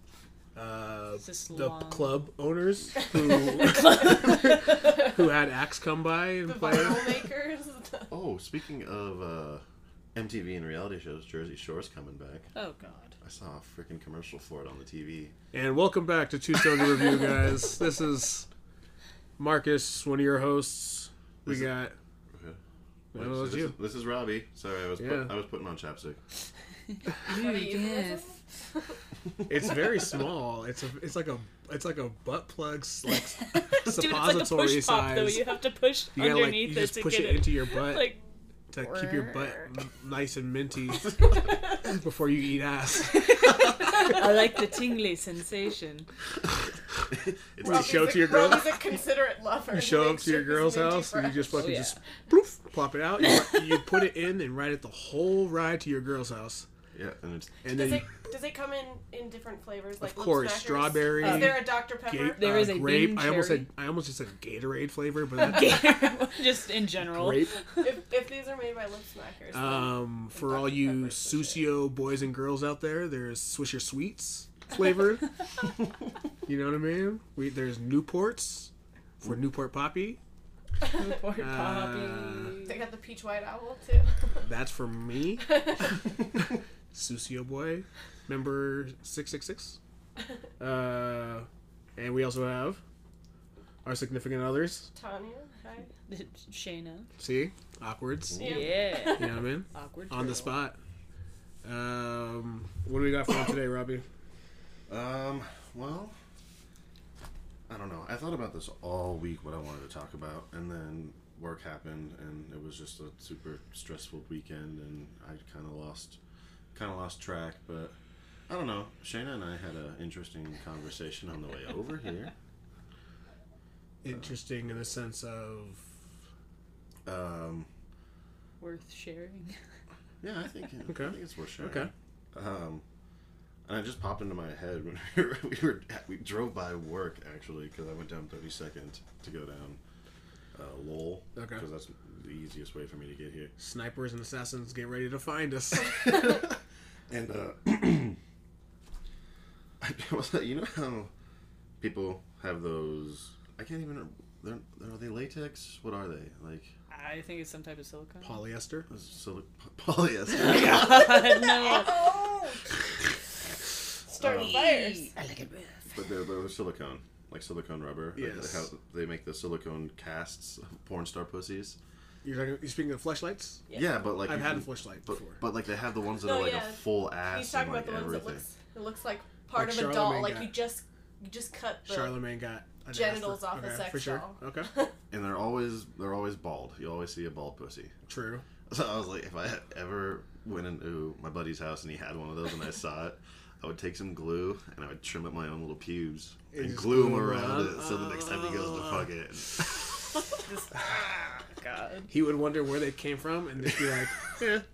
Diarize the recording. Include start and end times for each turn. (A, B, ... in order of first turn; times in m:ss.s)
0:00.5-0:07.2 A
0:01.2-0:02.2 B
0:03.5-0:05.0 B
0:06.4-0:08.1 C
0:08.1-0:12.5 D
0:12.5-0:13.2 B
0:13.2-0:15.3 D
0:15.5-0:18.5 A
0:19.4-0:21.9 A
0:21.4-0:21.7 D
0:22.3-0:22.6 D
0:23.1-0:23.7 A
0:23.1-0:26.2 D
0:25.0-0:25.3 A
0:27.2-0:28.3 B
0:27.3-0:29.0 C
0:29.5-0:35.4 A
0:33.5-0:38.2 B
0:36.1-0:38.1 A
0:38.7-0:41.1 A
0:39.1-0:39.6 C
0:41.8-0:43.5 A
0:43.1-0:46.1 B
0:47.1-0:48.4 D
0:47.6-0:48.9 A
0:47.6-0:51.6 C
0:49.7-0:56.7 A
0:51.5-0:52.0 B
0:53.4-0:53.8 B
0:56.9-0:57.7 D
0:57.6-0:58.1 A
0:57.7-1:02.4 C
1:00.0-1:05.8 A
1:01.2-1:01.7 B
1:02.3-1:03.7 B
1:05.4-1:07.8 B
1:07.0-1:07.5 A
1:07.8-1:11.8 C
1:09.5-1:15.3 A
1:16.4-1:18.7 A
1:19.2-1:20.2 A
1:20.8-1:22.8 B
1:21.4-1:22.6 A
1:22.6-1:24.5 C
1:24.4-1:25.5 A
1:25.4-1:26.0 C
1:26.9-1:29.8 A
1:30.6-1:32.8 A
1:33.8-1:34.9 A
1:34.9-1:35.9 C
1:36.1-1:37.1 B
1:37.2-1:38.4 A
1:38.3-1:38.7 D
1:38.4-1:39.2 C
1:38.4-1:40.5 B
1:39.1-1:40.8 A
1:41.6-1:44.0 A
1:44.9-1:46.2 D
1:47.7-1:56.2 D
1:56.7-1:58.0 D
1:58.5-2:02.3 D
2:04.0-2:05.8 A
2:07.0-2:07.7 D
2:08.6-2:09.6 B
2:10.2-2:12.8 D
2:10.9-2:11.9 A
2:13.6-2:19.8 D
2:20.5-2:23.5 D
2:21.4-2:21.6 A
2:23.6-2:26.1 A
2:25.9-2:26.6 D
2:27.1-2:28.2 D
2:29.8-2:31.1 D
2:31.8-2:36.7 D
2:36.9-2:38.4 B
2:38.2-2:38.9 A
2:38.9-2:41.2 D
2:40.3-2:42.0 B
2:41.3-2:42.6 C
2:44.1-2:45.1 C
2:44.2-2:44.5 D
2:44.3-2:45.7 B
2:45.9-2:51.8 D
2:48.2-2:48.7 A
2:52.2-2:53.6 A
2:53.7-2:58.4 D
2:54.2-2:55.4 A
2:56.2-3:02.2 C
2:59.5-3:00.5 A
3:01.8-3:04.7 A
3:02.9-3:04.9 C
3:05.1-3:07.9 D
3:08.1-3:08.4 A
3:08.7-3:19.9 D
3:16.5-3:19.0 A
3:20.4-3:22.1 B
3:22.1-3:24.6 A